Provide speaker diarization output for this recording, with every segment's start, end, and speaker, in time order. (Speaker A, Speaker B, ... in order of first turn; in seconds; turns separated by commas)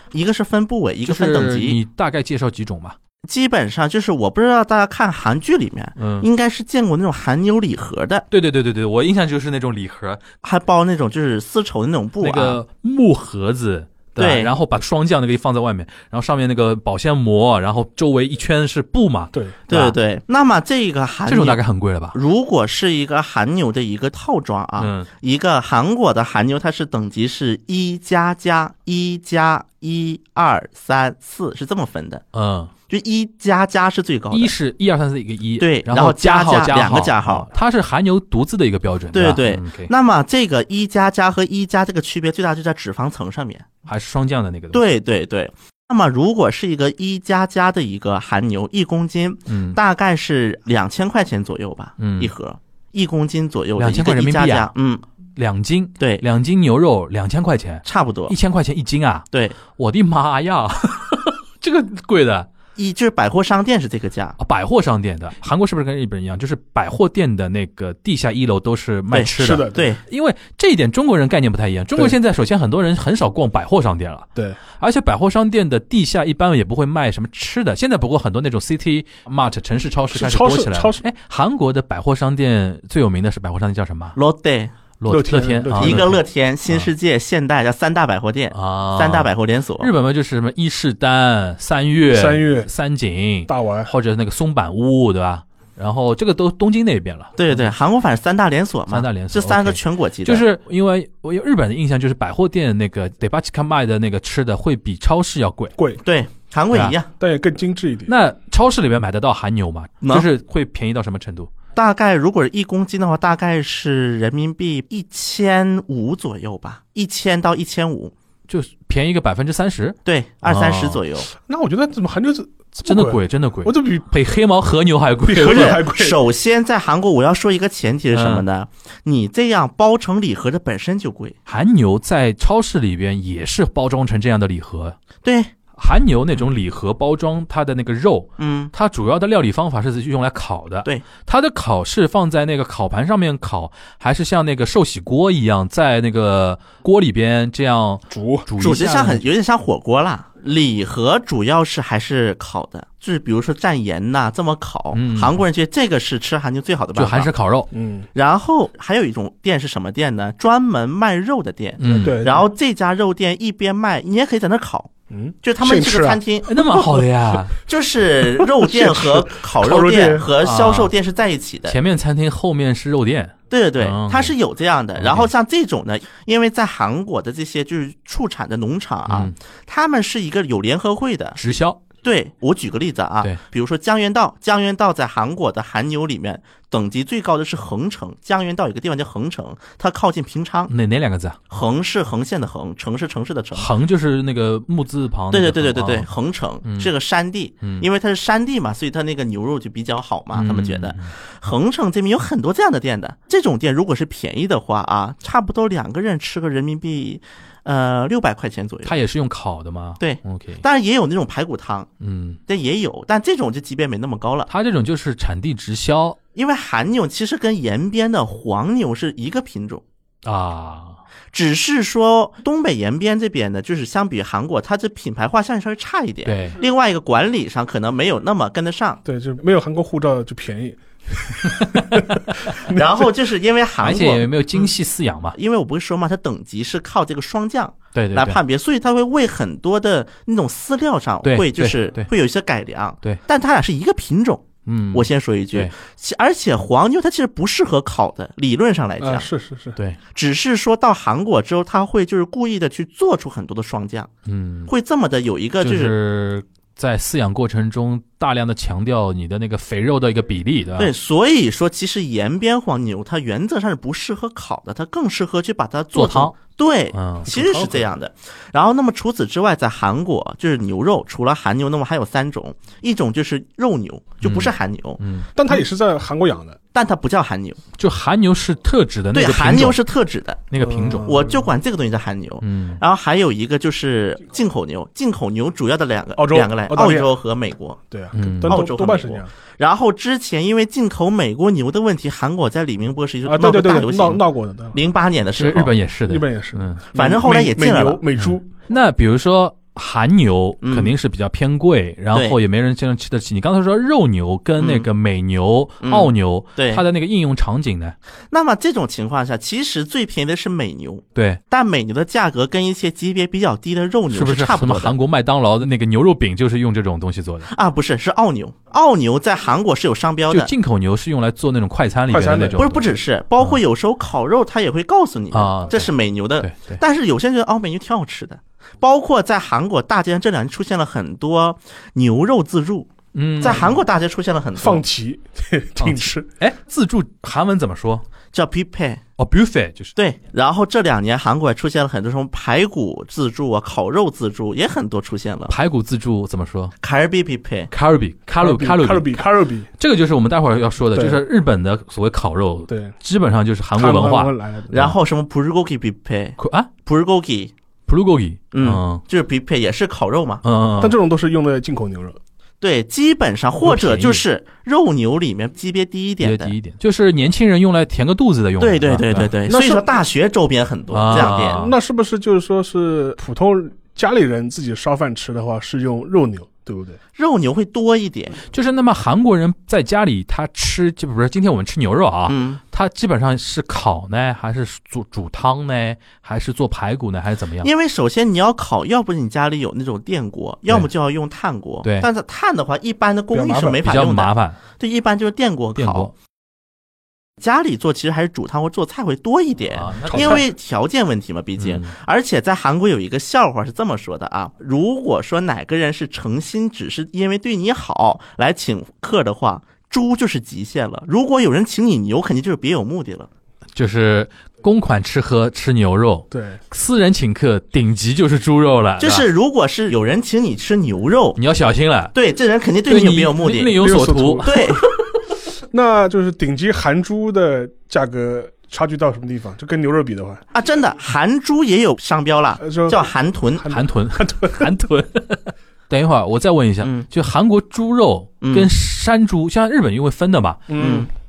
Speaker A: 0.1-1.8, Speaker B: 1.1-3.0, Speaker A: 3.2-8.3, Speaker B: 6.0-6.3, Speaker B: 8.3-10.2, Speaker A: 10.4-12.6, Speaker B: 12.2-20.0, Speaker A: 14.2-14.5, Speaker A: 19.7-21.6, Speaker B: 21.3-22.2, Speaker A: 22.1-32.2, Speaker B: 24.8-25.1, Speaker B: 32.3-32.7, Speaker A: 32.9-34.5, Speaker B: 34.3-39.9, Speaker A: 35.6-37.5, Speaker A: 39.1-43.7, Speaker B: 43.9-44.9, Speaker A: 44.7-55.0, Speaker B: 49.5-49.8, Speaker B: 52.0-52.3, Speaker B: 53.8-54.7, Speaker B: 55.4-62.5, Speaker A: 57.9-58.4, Speaker A: 59.3-59.6, Speaker A: 62.8-64.4, Speaker B: 64.4-74.3, Speaker A: 69.1-70.0, Speaker C: 69.4-70.0, Speaker B: 74.8-84.2, Speaker C: 80.1-81.0, Speaker A: 84.2-84.7, Speaker B: 85.0-86.1, Speaker C: 85.1-86.1, Speaker A: 85.8-89.9, Speaker B: 88.5-97.7, Speaker C: 92.1-92.7, Speaker C: 93.5-93.9, Speaker A: 97.4-100.4, Speaker B: 98.9-105.8, Speaker C: 105.8-106.0, Speaker A: 106.0-107.1, Speaker C: 107.2-108.1, Speaker B: 108.1-111.5, Speaker A: 110.0-110.3, Speaker A: 111.8-118.1, Speaker B: 118.5-121.0, Speaker A: 120.1-121.3, Speaker C: 121.3-124.1, Speaker B: 122.8-125.8, Speaker C: 125.3-126.2, Speaker A: 125.4-131.4, Speaker B: 128.1-128.4, Speaker B: 131.5-135.0, Speaker A: 135.2-135.5, Speaker B: 135.8-149.2, Speaker A: 138.4-138.7, Speaker C: 148.1-148.5, Speaker A: 148.6-157.3, Speaker B: 154.9-155.4, Speaker B: 156.9-157.7, Speaker C: 157.7-158.1, Speaker A: 158.2-164.9, Speaker B: 161.8-162.2, Speaker C: 162.0-162.5, Speaker C: 165.1-166.2, Speaker A: 165.4-166.6, Speaker B: 166.5-167.6, Speaker A: 167.6-171.8, Speaker C: 168.2-170.3, Speaker B: 170.4-170.9, Speaker B: 171.7-174.3, Speaker A: 173.5-181.4, Speaker B: 175.0-175.3, Speaker B: 179.1-179.3, Speaker B: 181.4-181.8, Speaker A: 182.0-190.7, Speaker B: 190.7-191.4, Speaker A: 191.5-193.7, Speaker B: 193.6-196.1, Speaker A: 195.3-208.9, Speaker B: 196.6-196.9, Speaker B: 197.6-197.9, Speaker B: 200.3-201.1, Speaker B: 208.8-210.6, Speaker A: 210.0-211.9, Speaker B: 212.0-212.4, Speaker A: 212.5-214.5, Speaker B: 214.5-216.2, Speaker A: 216.4-219.8, Speaker B: 220.2-221.0, Speaker A: 221.3-229.0, Speaker B: 226.2-226.6, Speaker C: 229.1-233.0, Speaker B: 231.5-232.6, Speaker A: 232.6-234.6, Speaker B: 233.8-235.4, Speaker A: 235.3-249.3, Speaker B: 237.9-238.4, Speaker B: 241.2-242.1, Speaker B: 244.7-245.7, Speaker C: 249.0-249.8, Speaker A: 250.2-254.1, Speaker B: 254.3-254.7, Speaker A: 254.7-255.9, Speaker B: 255.6-260.9, Speaker A: 260.8-275.0, Speaker B: 265.9-266.4, Speaker B: 266.9-267.4, Speaker C: 267.3-267.9, Speaker B: 274.2-275.3, Speaker C: 275.4-276.6, Speaker A: 276.7-277.6, Speaker B: 277.8-279.8, Speaker A: 279.1-280.4, Speaker B: 280.5-281.3, Speaker C: 280.6-281.5, Speaker A: 281.1-287.8, Speaker B: 282.4-282.8, Speaker C: 286.2-287.1, Speaker C: 287.9-289.3, Speaker B: 288.1-288.6, Speaker A: 288.3-295.7, Speaker C: 293.3-294.8, Speaker B: 295.4-296.8, Speaker C: 296.1-298.5, Speaker A: 296.9-298.0, Speaker B: 298.2-308.0, Speaker A: 300.6-300.9, Speaker A: 304.6-304.9, Speaker A: 305.8-306.8, Speaker A: 308.3-315.0, Speaker B: 311.1-311.4, Speaker B: 314.1-317.5, Speaker A: 317.5-320.5, Speaker B: 320.3-322.9, Speaker C: 322.1-322.6, Speaker A: 322.6-334.8, Speaker B: 325.3-326.8, Speaker B: 333.1-333.7, Speaker C: 334.6-336.3, Speaker B: 335.8-338.1, Speaker A: 338.3-339.0, Speaker B: 339.2-339.9, Speaker A: 340.0-345.5, Speaker B: 345.5-346.7, Speaker A: 346.8-347.7, Speaker B: 347.7-349.2, Speaker C: 348.4-349.7, Speaker B: 349.8-354.9, Speaker C: 350.9-351.2, Speaker C: 352.7-352.9, Speaker C: 353.8-354.8, Speaker A: 354.7-357.5, Speaker B: 356.4-356.7, Speaker B: 357.9-359.0, Speaker A: 358.5-360.4, Speaker B: 360.4-361.0, Speaker C: 360.8-362.2, Speaker A: 362.6-366.5, Speaker B: 363.6-364.2, Speaker B: 366.2-369.3, Speaker A: 368.6-371.7, Speaker C: 369.5-369.9, Speaker B: 370.9-371.7, Speaker C: 371.1-377.0, Speaker A: 377.2-378.4, Speaker B: 378.5-387.7, Speaker A: 382.3-382.6, Speaker A: 387.6-396.1, Speaker C: 393.3-393.8, Speaker B: 393.8-394.6, Speaker B: 395.8-396.1, Speaker A: 397.4-413.3, Speaker B: 399.7-400.4, Speaker C: 400.1-400.4, Speaker B: 401.6-401.9, Speaker B: 413.8-419.3, Speaker C: 416.3-416.6, Speaker A: 419.0-421.4, Speaker B: 421.4-422.1, Speaker A: 422.1-423.8, Speaker B: 422.9-424.7, Speaker C: 423.8-424.8, Speaker A: 424.4-424.8, Speaker C: 425.5-430.4, Speaker A: 430.5-433.7, Speaker C: 432.6-434.8, Speaker B: 433.7-440.8, Speaker A: 438.4-438.7, Speaker C: 440.7-441.1, Speaker A: 440.8-441.1